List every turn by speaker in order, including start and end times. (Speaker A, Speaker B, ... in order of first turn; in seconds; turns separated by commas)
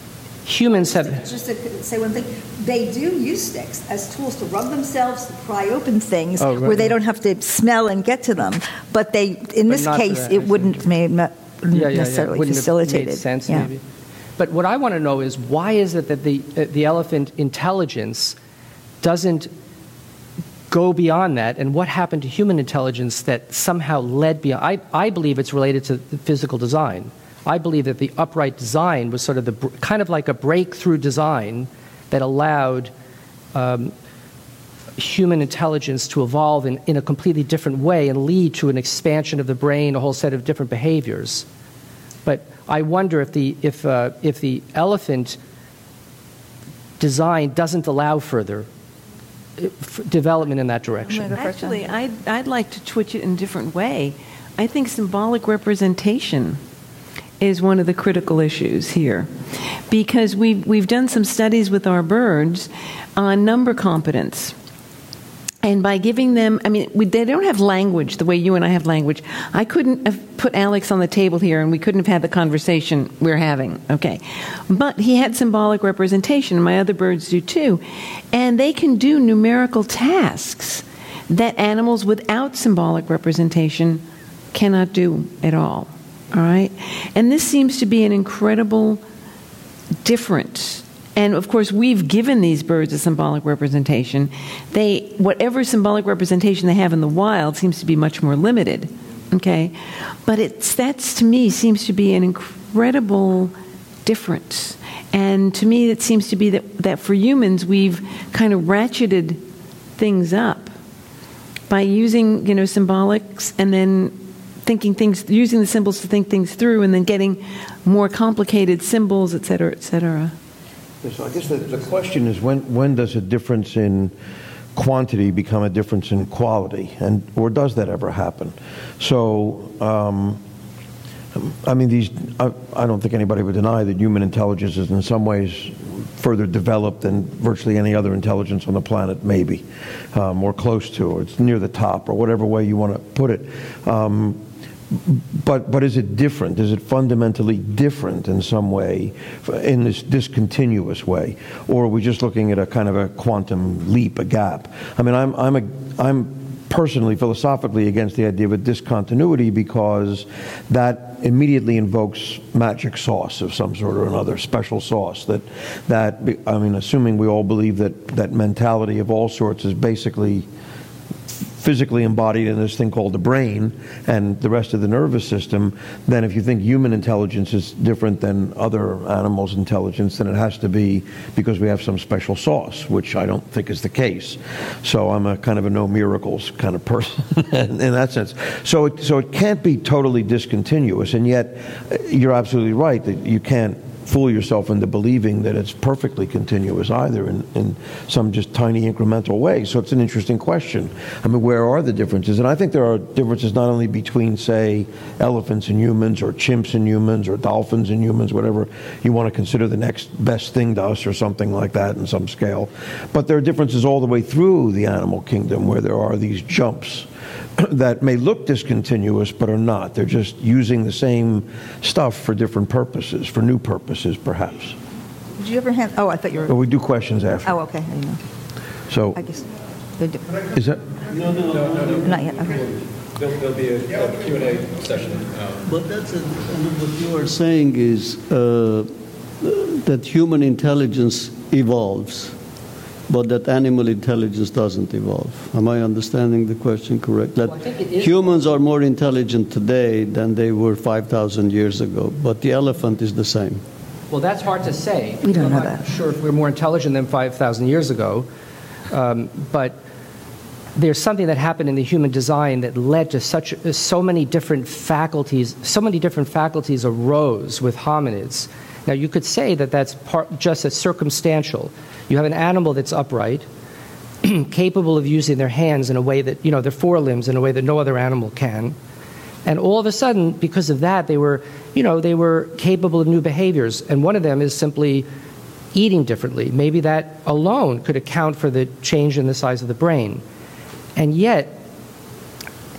Speaker A: 0.5-1.2, Speaker B: 0.9-13.7, Speaker A: 6.4-7.0, Speaker A: 9.7-10.8, Speaker A: 11.7-13.8, Speaker A: 14.4-18.4, Speaker A: 19.0-19.5, Speaker A: 20.7-32.9, Speaker A: 33.5-33.9, Speaker A: 35.0-41.4, Speaker A: 42.2-45.4, Speaker A: 47.0-48.7, Speaker A: 49.6-51.4, Speaker B: 51.1-51.9, Speaker C: 51.3-56.6, Speaker C: 57.4-59.3, Speaker C: 59.9-64.5, Speaker C: 65.6-89.0, Speaker C: 90.0-103.5, Speaker C: 104.0-109.4, Speaker C: 110.0-110.7, Speaker C: 111.7-120.3, Speaker D: 121.0-124.1, Speaker D: 124.7-130.4, Speaker D: 131.3-144.4, Speaker D: 144.9-170.4, Speaker D: 171.6-224.8, Speaker B: 225.4-226.6, Speaker D: 226.4-227.6, Speaker B: 227.4-228.2, Speaker D: 228.9-229.2, Speaker B: 229.1-229.4, Speaker B: 230.0-230.2, Speaker D: 230.5-230.8, Speaker E: 231.1-232.8, Speaker B: 232.1-232.6, Speaker F: 233.3-235.3, Speaker E: 235.7-238.9, Speaker E: 239.4-242.3, Speaker E: 243.1-253.6, Speaker A: 247.4-248.6, Speaker A: 254.1-258.2, Speaker B: 255.2-255.8, Speaker A: 258.9-259.8, Speaker A: 260.8-273.4, Speaker A: 274.2-278.7, Speaker A: 279.4-285.1, Speaker A: 285.7-290.2, Speaker A: 290.9-291.6